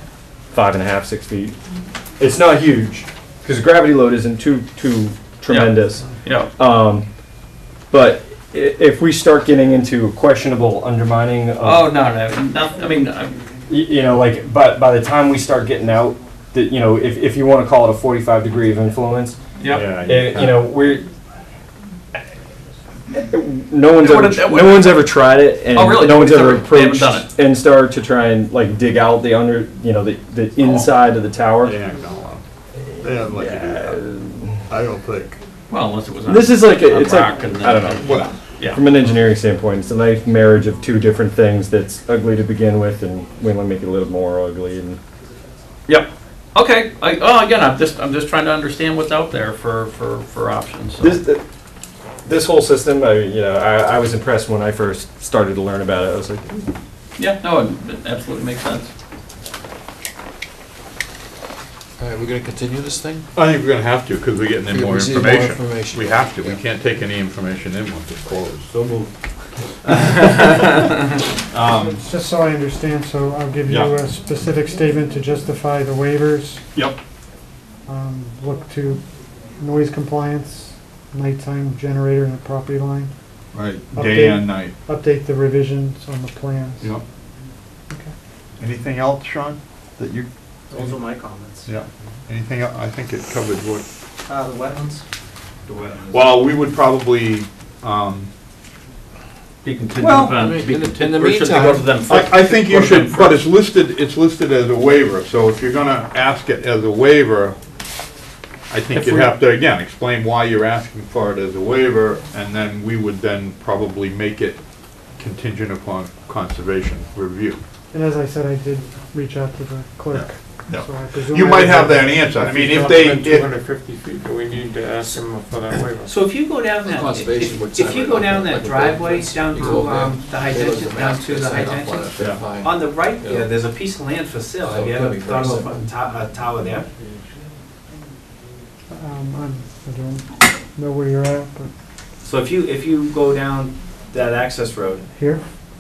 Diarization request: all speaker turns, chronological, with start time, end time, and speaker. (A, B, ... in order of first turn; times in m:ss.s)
0:00.5-0:01.6 A
0:02.2-0:07.1 A
0:05.5-0:06.5 B
0:07.9-0:11.9 A
0:11.6-0:13.4 B
0:13.7-0:19.4 A
0:19.6-0:20.0 B
0:19.7-0:20.7 C
0:20.0-0:21.0 A
0:23.2-0:31.8 A
0:24.0-0:25.1 B
0:25.7-0:27.3 B
0:31.6-0:32.4 C
0:33.0-0:34.1 C
0:33.4-0:34.4 A
0:34.7-0:35.4 C
0:35.7-0:38.8 B
0:36.3-0:45.0 A
0:38.0-0:38.3 C
0:46.5-0:51.2 B
0:51.0-0:51.4 A
0:52.2-0:56.7 A
0:57.2-0:58.9 B
1:02.0-1:03.2 D
1:03.4-1:08.7 C
1:04.7-1:06.6 D
1:08.7-1:09.1 E
1:11.5-1:12.0 C
1:11.8-1:16.6 F
1:13.7-1:13.9 C
1:17.9-1:19.0 F
1:19.6-1:23.1 F
1:23.5-1:24.7 C
1:23.9-1:26.9 F
1:28.6-1:30.9 C
1:30.7-1:31.6 G
1:31.7-1:33.8 C
1:34.3-1:35.0 E
1:35.7-1:36.3 E
1:36.1-1:38.3 C
1:39.6-1:43.4 B
1:40.0-1:40.4 C
1:40.3-1:41.9 D
1:42.0-1:47.6 C
1:48.7-1:54.6 C
1:49.0-1:49.3 B
1:55.2-1:57.6 C
1:57.9-2:02.6 F
2:00.1-2:03.5 C
2:02.5-2:06.2 G
2:06.0-2:16.9 E
2:06.8-2:13.5 D
2:12.2-2:12.4 C
2:14.6-2:15.8 D
2:18.9-2:21.7 F
2:22.2-2:25.1 E
2:25.2-2:25.4 F